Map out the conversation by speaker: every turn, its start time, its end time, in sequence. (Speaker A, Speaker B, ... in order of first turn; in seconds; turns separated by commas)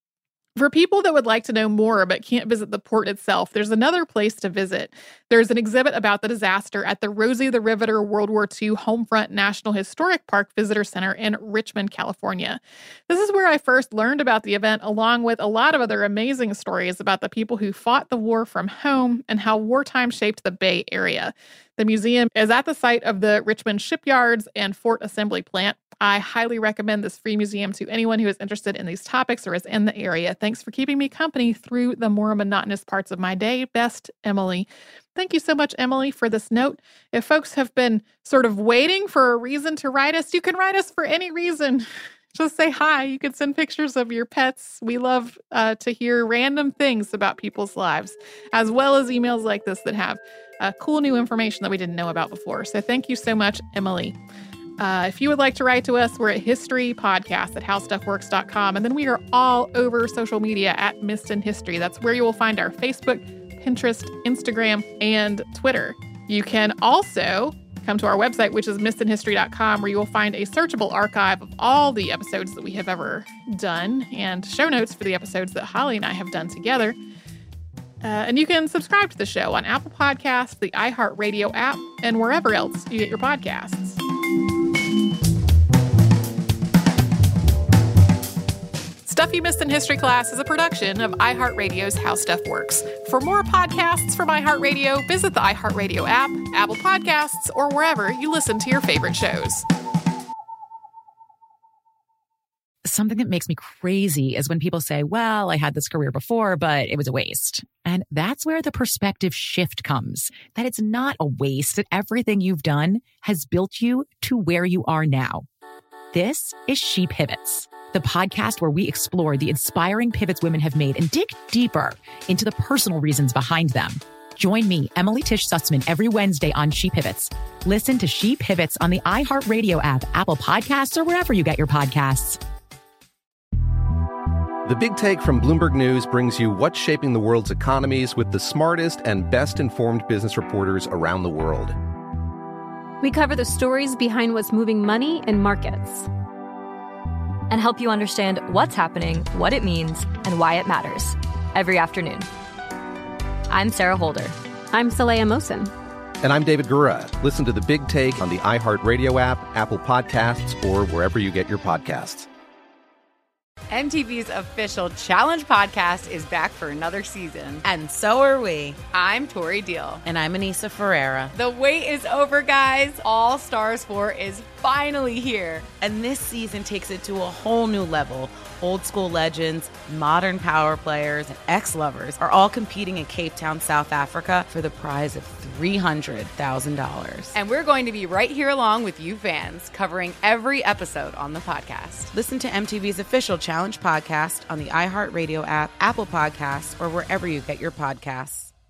Speaker A: 0.6-54.2, Speaker A: 54.8-77.0, Speaker A: 78.0-84.0, Speaker A: 89.0-99.6, Speaker B: 102.8-115.5, Speaker B: 116.1-132.4, Speaker C: 134.6-141.7, Speaker D: 143.0-146.1, Speaker E: 147.5-152.3, Speaker E: 153.5-154.4, Speaker D: 154.7-155.7, Speaker C: 156.2-162.3, Speaker F: 163.7-167.6, Speaker G: 167.6-168.8, Speaker F: 168.8-170.0, Speaker G: 170.0-171.3, Speaker F: 171.3-175.7, Speaker G: 175.8-187.3, Speaker F: 187.3-192.1, Speaker G: 192.1-198.5